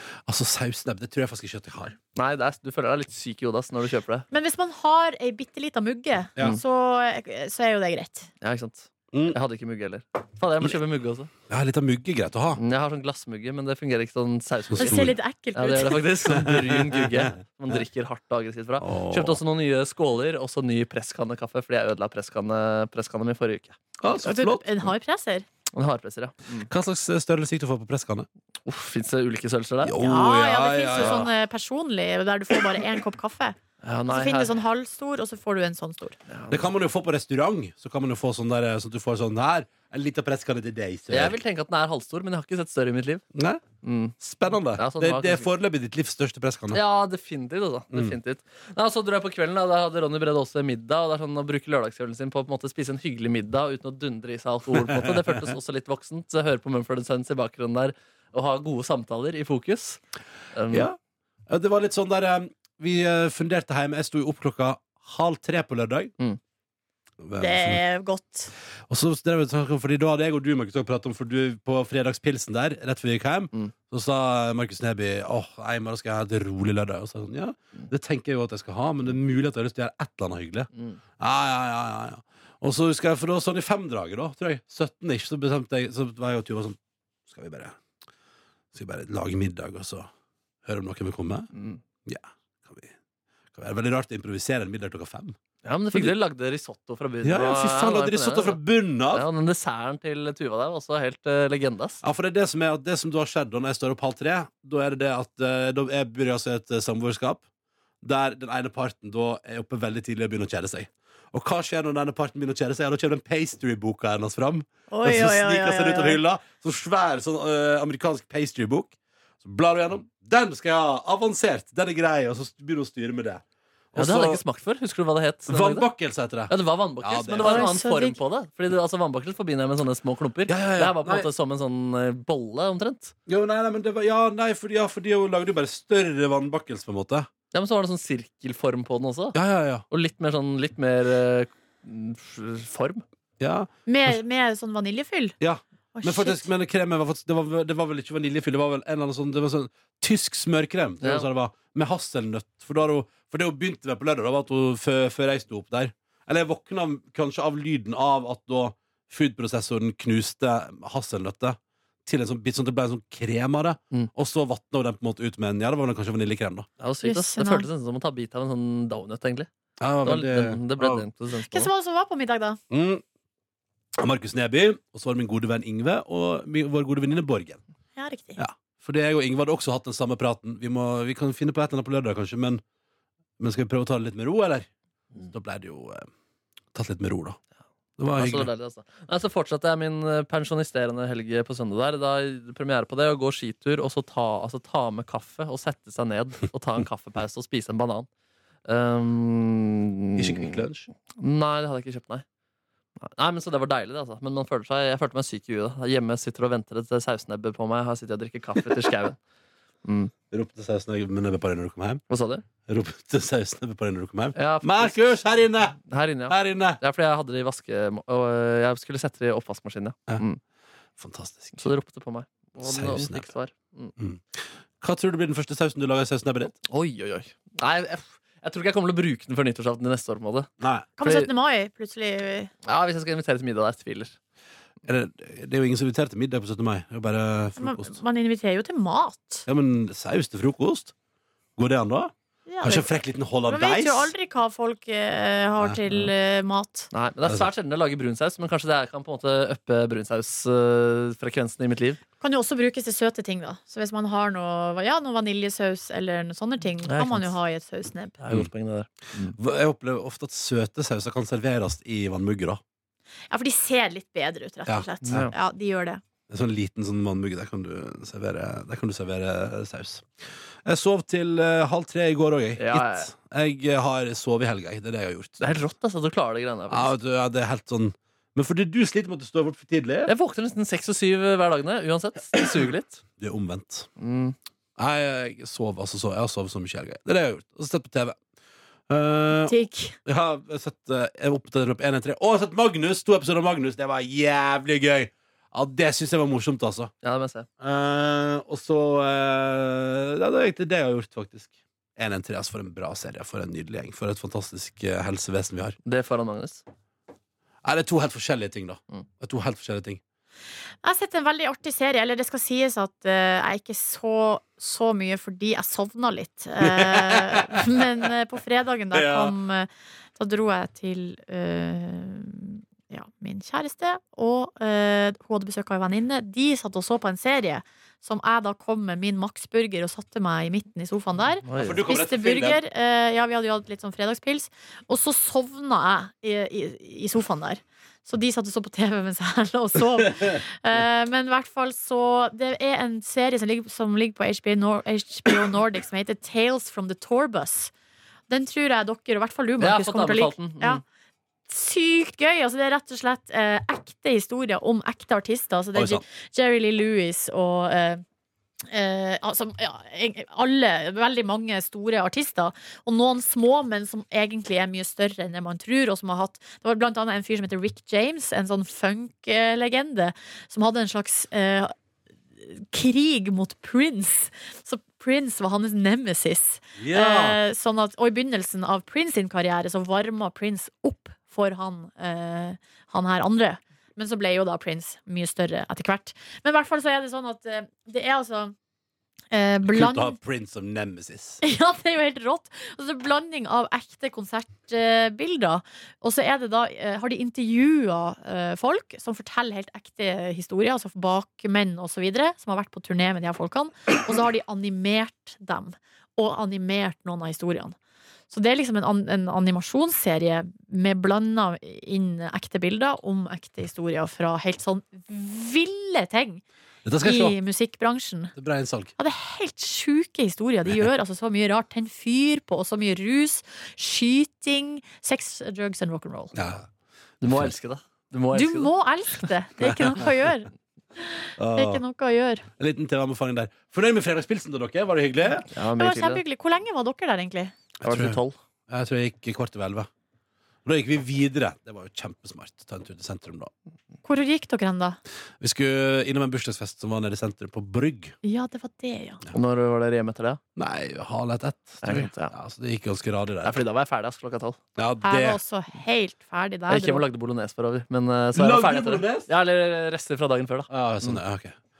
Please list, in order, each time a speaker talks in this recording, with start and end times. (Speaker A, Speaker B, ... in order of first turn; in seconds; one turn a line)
Speaker A: 0.3-2.0
Speaker B: 2.1-4.3
Speaker C: 4.3-8.3
Speaker B: 8.4-11.3
Speaker A: 11.5-12.6
Speaker B: 12.6-23.8
Speaker A: 14.7-15.2
Speaker C: 14.8-16.1
Speaker A: 16.3-17.8
Speaker A: 18.8-19.4
Speaker A: 24.0-24.7
Speaker C: 24.2-25.5
Speaker B: 25.7-26.7
Speaker A: 26.7-28.3
Speaker B: 28.6-30.0
Speaker A: 29.8-31.3
Speaker C: 30.0-33.6
Speaker B: 31.0-31.3
Speaker B: 33.8-34.5
Speaker C: 34.1-36.2
Speaker B: 36.3-36.6
Speaker A: 36.5-41.4
Speaker B: 41.1-43.2
Speaker A: 43.3-43.6
Speaker B: 43.8-44.2
Speaker A: 44.2-46.8
Speaker B: 44.8-45.5
Speaker B: 46.7-60.0
Speaker A: 54.7-55.5
Speaker B: 60.5-60.9
Speaker A: 60.7-61.0
Speaker A: 61.5-66.1
Speaker A: 67.2-67.8
Speaker C: 67.4-68.5
Speaker A: 68.9-86.8
Speaker A: 87.3-87.8
Speaker A: 88.7-90.1
Speaker A: 90.7-91.5
Speaker B: 91.5-91.8
Speaker A: 92.0-92.9
Speaker A: 93.5-95.4
Speaker B: 95.6-98.6
Speaker A: 97.2-99.2
Speaker B: 99.1-102.0
Speaker A: 102.0-107.4
Speaker A: 108.0-124.4
Speaker C: 114.9-116.2
Speaker B: 124.0-125.9
Speaker A: 125.5-127.7
Speaker B: 126.5-133.1
Speaker C: 127.4-128.2
Speaker A: 130.5-131.3
Speaker A: 133.3-137.3
Speaker B: 137.5-143.0
Speaker A: 139.3-139.8
Speaker A: 143.4-144.1
Speaker C: 143.9-145.3
Speaker A: 145.4-166.7
Speaker C: 145.9-146.5
Speaker B: 166.8-169.5
Speaker C: 167.0-167.7
Speaker A: 169.8-171.1
Speaker B: 170.0-171.7
Speaker C: 171.5-172.6
Speaker A: 172.7-173.0
Speaker A: 174.0-177.6
Speaker C: 178.0-178.4
Speaker A: 178.4-182.6
Speaker A: 183.4-184.7
Speaker A: 185.2-186.1
Speaker A: 186.7-187.4
Speaker A: 188.0-188.5
Speaker B: 188.1-198.1
Speaker B: 198.7-200.6
Speaker A: 200.2-200.9
Speaker B: 201.2-202.2
Speaker B: 203.0-209.2
Speaker B: 209.8-210.1
Speaker A: 210.3-212.0
Speaker B: 212.1-212.4
Speaker A: 212.7-216.8
Speaker B: 214.4-215.1
Speaker B: 215.8-220.4
Speaker A: 221.0-221.6
Speaker B: 221.6-223.9
Speaker A: 222.6-223.3
Speaker A: 224.8-226.6
Speaker B: 226.6-230.5
Speaker A: 230.6-230.9
Speaker C: 231.0-232.5
Speaker B: 231.0-231.3
Speaker B: 232.7-234.2
Speaker A: 234.8-238.0
Speaker C: 237.6-239.5
Speaker A: 239.5-240.9
Speaker A: 241.6-244.1
Speaker C: 242.5-242.9
Speaker C: 243.4-246.9
Speaker B: 246.9-252.0
Speaker C: 252.2-258.1
Speaker B: 256.9-257.3
Speaker B: 258.2-259.4
Speaker A: 259.3-262.6
Speaker C: 263.3-266.0
Speaker A: 264.7-265.3
Speaker B: 265.0-265.3
Speaker A: 266.3-270.1
Speaker A: 270.6-275.4
Speaker B: 272.6-273.1
Speaker B: 275.4-276.9
Speaker A: 276.7-280.1
Speaker B: 280.1-283.0
Speaker A: 283.2-283.9
Speaker B: 284.0-284.4
Speaker A: 284.8-288.2
Speaker A: 288.9-296.9
Speaker C: 289.4-290.0
Speaker B: 297.0-297.5
Speaker A: 297.6-305.8
Speaker B: 305.9-306.6
Speaker A: 307.6-310.0
Speaker C: 310.8-347.7
Speaker A: 316.6-317.8
Speaker A: 318.9-319.3
Speaker B: 331.4-331.8
Speaker A: 331.6-332.6
Speaker C: 348.3-350.8
Speaker B: 349.6-350.8
Speaker C: 351.5-358.0
Speaker A: 355.7-356.0
Speaker C: 358.7-371.7
Speaker C: 372.4-388.6
Speaker A: 376.8-377.4
Speaker C: 389.3-390.2
Speaker A: 389.6-391.4
Speaker C: 391.4-407.8
Speaker C: 408.3-416.4
Speaker A: 416.9-417.4
Speaker C: 417.0-418.3
Speaker A: 418.4-418.9
Speaker C: 419.0-426.4
Speaker A: 426.3-426.7
Speaker B: 427.2-428.7
Speaker A: 427.2-427.5
Speaker C: 428.3-432.5
Speaker A: 431.4-431.8
Speaker A: 432.6-435.5
Speaker B: 435.5-436.2
Speaker C: 435.8-437.6
Speaker A: 437.8-439.9
Speaker B: 437.8-438.4
Speaker A: 440.6-443.5
Speaker C: 444.0-445.0
Speaker A: 445.4-448.1
Speaker C: 448.2-449.2
Speaker B: 449.3-450.4
Speaker A: 450.6-453.6
Speaker B: 451.8-452.3
Speaker B: 453.4-454.6
Speaker A: 454.8-455.4
Speaker C: 455.0-457.0
Speaker B: 456.7-461.2
Speaker A: 458.4-459.3
Speaker A: 460.7-461.6